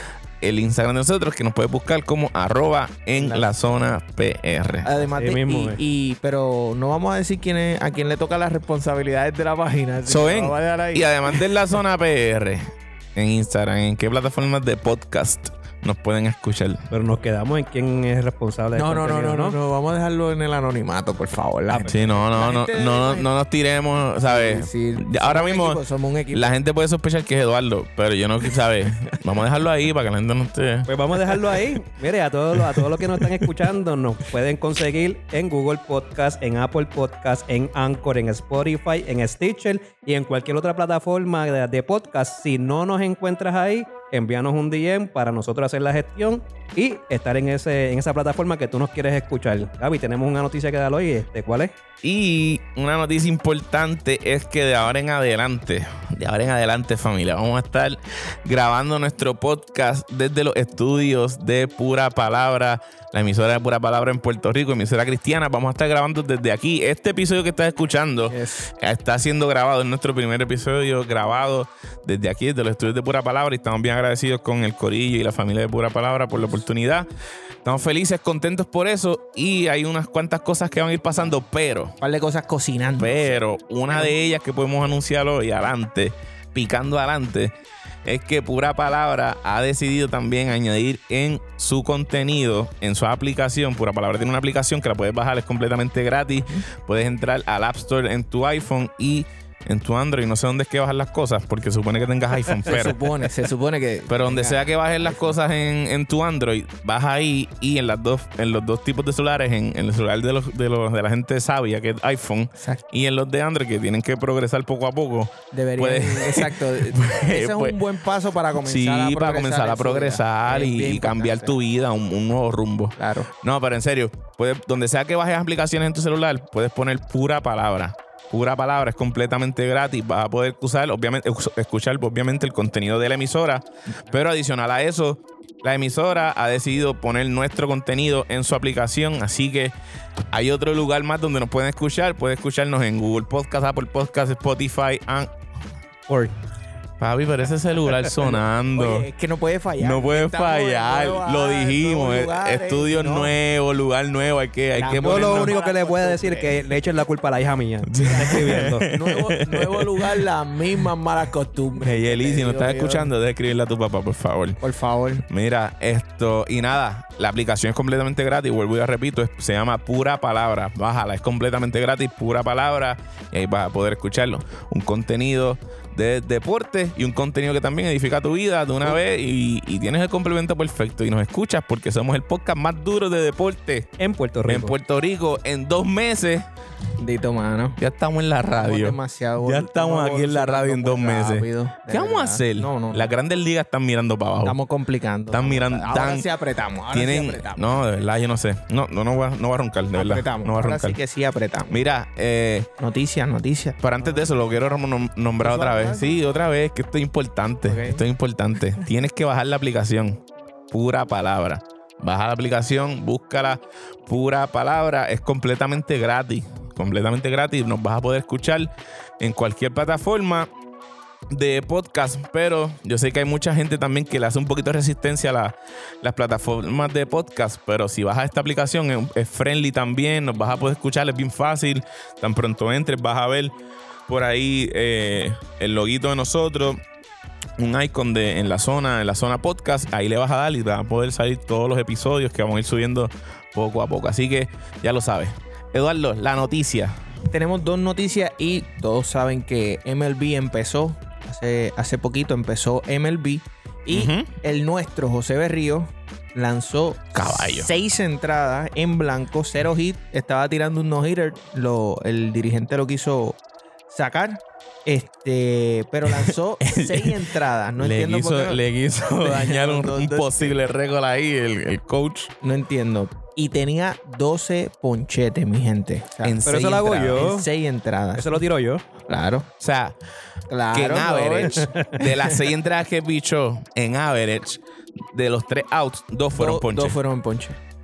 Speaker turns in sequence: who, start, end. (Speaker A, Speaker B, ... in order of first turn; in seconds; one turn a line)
Speaker A: 0.4-5.0
Speaker B: 3.2-3.7
Speaker B: 4.8-11.5
Speaker C: 5.1-5.8
Speaker A: 10.1-16.8
Speaker C: 16.9-19.6
Speaker B: 18.7-23.3
Speaker A: 21.7-25.8
Speaker B: 24.2-26.5
Speaker A: 26.3-31.7
Speaker C: 30.9-51.7
Speaker A: 32.5-33.5
Speaker A: 52.0-77.0
Speaker B: 68.3-68.7
Speaker A: 77.6-82.0
Speaker B: 82.0-83.4
Speaker A: 83.0-103.0
Speaker B: 83.9-84.1
Speaker B: 102.6-105.4
Speaker A: 104.1-117.8
Speaker B: 112.6-112.8
Speaker B: 115.5-121.5
Speaker A: 118.6-139.7
Speaker B: 123.0-123.3
Speaker A: 140.3-145.3
Speaker A: 147.0-149.1
Speaker B: 148.2-153.3
Speaker A: 149.8-155.5
Speaker B: 154.8-156.7
Speaker C: 154.9-158.9
Speaker A: 157.9-160.8
Speaker B: 158.0-163.1
Speaker A: 161.8-164.6
Speaker B: 164.6-165.2
Speaker A: 165.2-183.9
Speaker C: 184.0-184.7
Speaker A: 184.5-186.5
Speaker B: 187.0-187.8
Speaker A: 187.8-194.6
Speaker B: 188.5-193.1
Speaker B: 194.4-198.0
Speaker A: 195.3-196.2
Speaker A: 196.9-201.0
Speaker B: 199.9-201.8
Speaker A: 201.7-202.7
Speaker B: 202.8-204.3
Speaker A: 203.8-220.5
Speaker B: 205.4-206.2
Speaker B: 207.6-208.0
Speaker A: 221.3-233.6
Speaker A: 234.1-236.8
Speaker A: 237.6-246.9
Speaker B: 247.3-263.4
Speaker A: 253.9-254.3
Speaker A: 257.1-257.7
Speaker B: 263.9-268.6
Speaker A: 266.1-267.2
Speaker A: 267.8-272.3
Speaker B: 269.1-270.5
Speaker B: 272.4-276.4
Speaker A: 276.2-277.3
Speaker C: 276.4-277.4
Speaker B: 277.1-278.4
Speaker C: 278.1-278.8
Speaker B: 279.1-279.5
Speaker A: 279.6-279.9
Speaker B: 280.5-282.5
Speaker A: 280.7-287.0
Speaker C: 281.6-282.0
Speaker B: 286.4-287.6